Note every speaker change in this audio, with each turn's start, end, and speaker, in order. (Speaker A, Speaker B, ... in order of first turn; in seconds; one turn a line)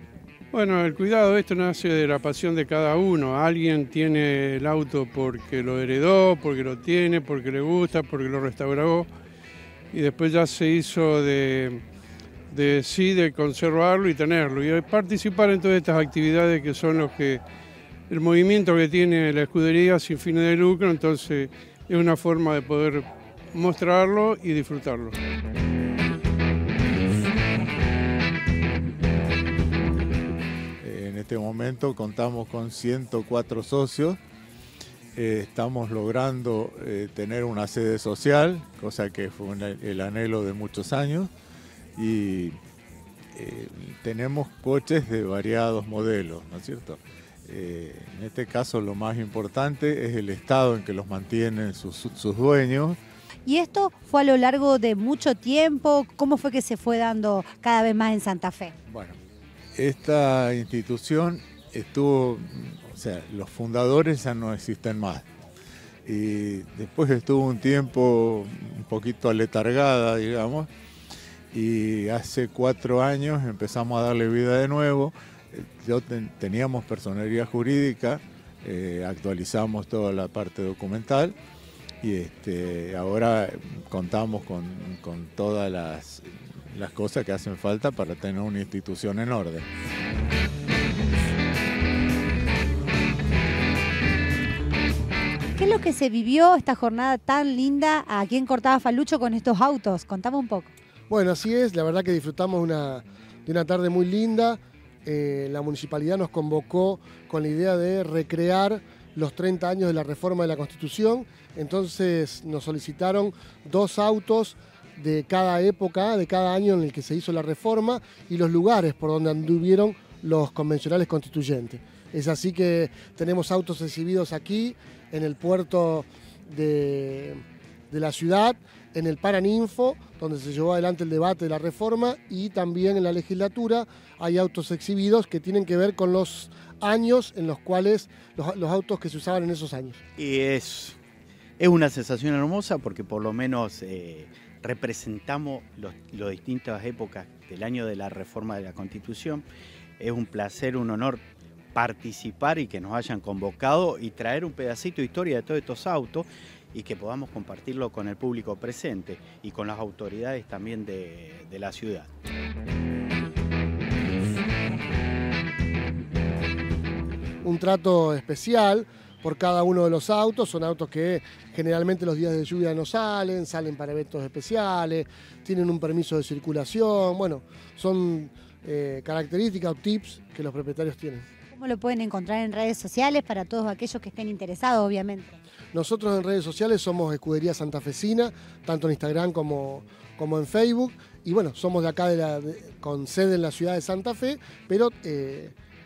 Speaker A: 0.5-9.1
Speaker A: 9.9-11.8
Speaker A: 12.5-17.4
Speaker A: 18.1-25.2
Speaker B: 30.8-34.2
Speaker B: 35.1-41.3
Speaker B: 42.0-42.5
Speaker B: 43.3-53.0
Speaker C: 53.4-58.7
Speaker B: 58.9-59.2
Speaker B: 59.8-65.2
Speaker B: 66.0-70.7
Speaker B: 71.5-81.3
Speaker B: 82.0-89.7
Speaker C: 95.5-100.7
Speaker D: 101.1-140.0
Speaker E: 140.3-140.9
Speaker E: 141.6-149.4
Speaker E: 150.0-151.2
Speaker E: 151.8-162.0
Speaker D: 167.4-181.2
Speaker C: 181.5-185.3
Speaker D: 185.7-195.5